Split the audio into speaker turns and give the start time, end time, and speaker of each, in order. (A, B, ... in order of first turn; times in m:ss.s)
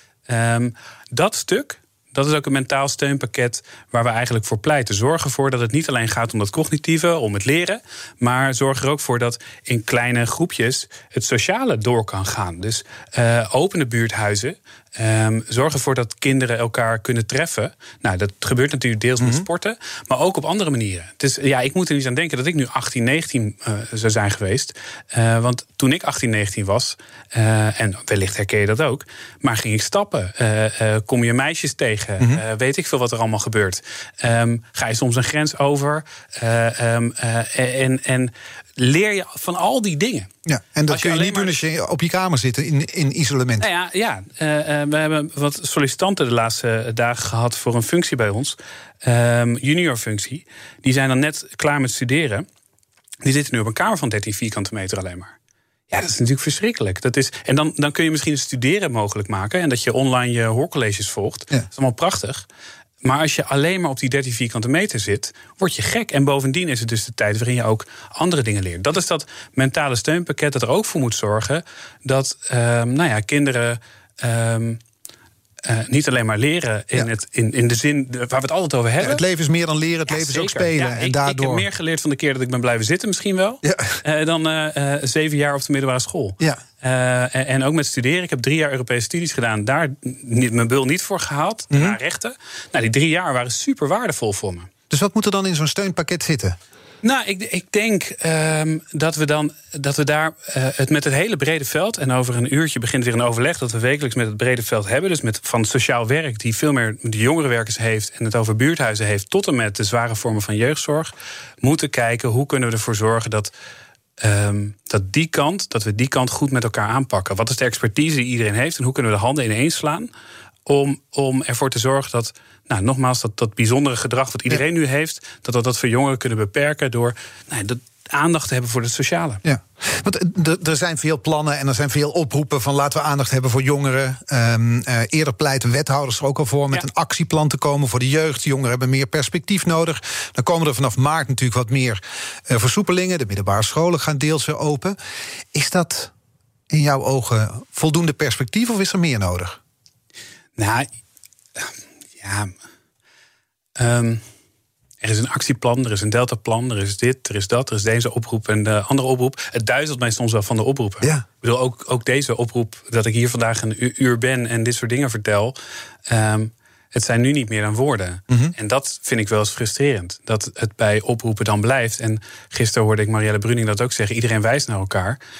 0:00.3-0:40.3 A
0:19.2-0:19.4 B
0:40.4-0:43.7 B
0:40.9-0:41.6 A
0:43.6-0:52.4 A
0:53.2-0:55.3 A
0:55.9-1:02.4 A
1:03.0-1:14.8 A
1:15.6-1:19.2 A
1:19.0-1:21.6 B
1:20.1-1:34.7 A
1:23.6-1:24.0 B
1:34.9-1:36.6 B
1:37.0-1:53.5 A
1:54.2-2:00.1 A
2:00.6-2:09.4 A
2:09.4-2:25.0 B
2:25.5-2:26.1 B
2:26.7-2:29.6 B
2:30.6-2:30.9 A
2:31.6-2:32.5 A
2:33.8-2:34.2 A
2:35.0-2:45.5 A
2:46.1-2:55.2 A